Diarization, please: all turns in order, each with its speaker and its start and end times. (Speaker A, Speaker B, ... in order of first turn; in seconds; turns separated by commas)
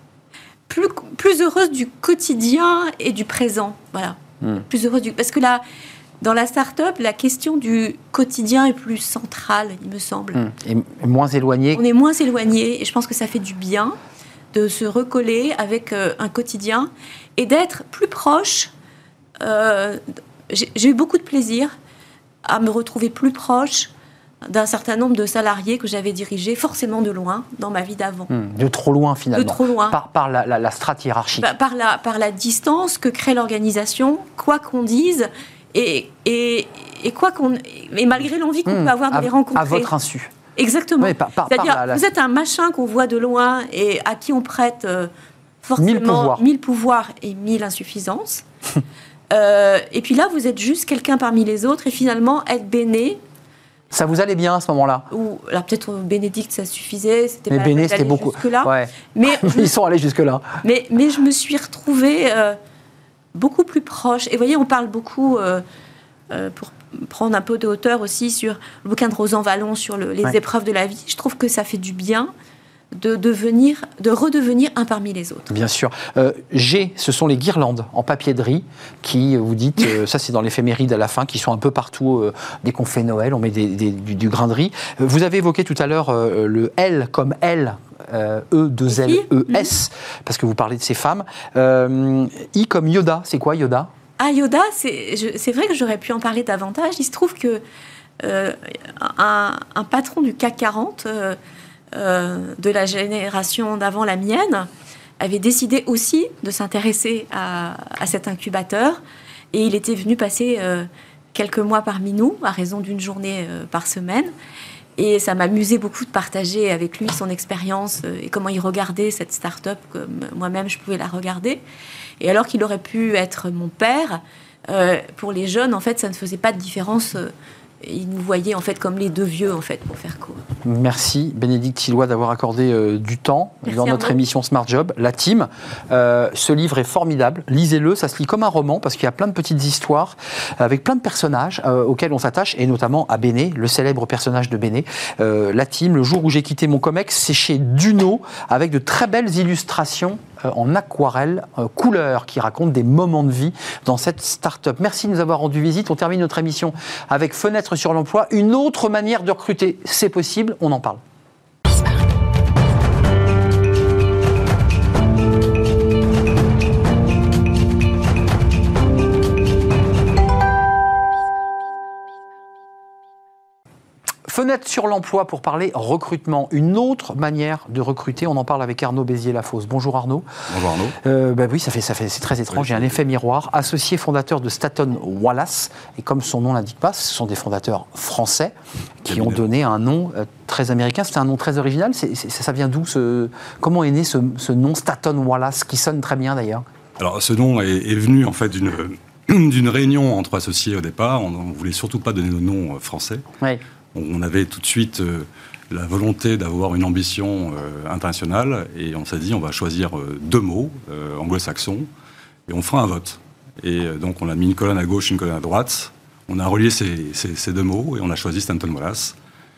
Speaker A: 0.7-5.6, Speaker A: 6.2-10.4, Speaker B: 10.3-11.8, Speaker A: 11.7-14.0, Speaker A: 14.5-18.7, Speaker A: 19.4-21.7, Speaker A: 22.4-23.9, Speaker A: 24.5-28.3, Speaker B: 28.3-31.5, Speaker A: 29.3-29.9, Speaker A: 31.4-39.9, Speaker B: 38.7-40.3, Speaker A: 40.5-45.1, Speaker B: 41.0-42.0, Speaker A: 45.6-48.4, Speaker B: 45.8-46.4, Speaker A: 49.3-53.2, Speaker B: 53.9-55.1, Speaker A: 55.1-59.7, Speaker B: 57.5-60.6, Speaker A: 60.6-62.6, Speaker A: 63.3-65.6, Speaker A: 66.3-72.3, Speaker A: 72.9-75.5, Speaker B: 75.5-93.9, Speaker A: 88.9-89.7, Speaker A: 94.2-97.6, Speaker A: 98.2-101.4, Speaker A: 101.9-104.7, Speaker A: 105.2-109.0, Speaker A: 109.5-114.3, Speaker A: 115.0-121.6, Speaker A: 122.2-130.4, Speaker B: 130.6-161.0, Speaker A: 133.7-134.1, Speaker B: 174.3-180.3, Speaker C: 180.5-180.9, Speaker B: 181.0-196.6, Speaker C: 182.5-182.9, Speaker C: 189.1-189.4, Speaker C: 197.0-203.2, Speaker C: 203.9-211.9, Speaker C: 212.5-219.2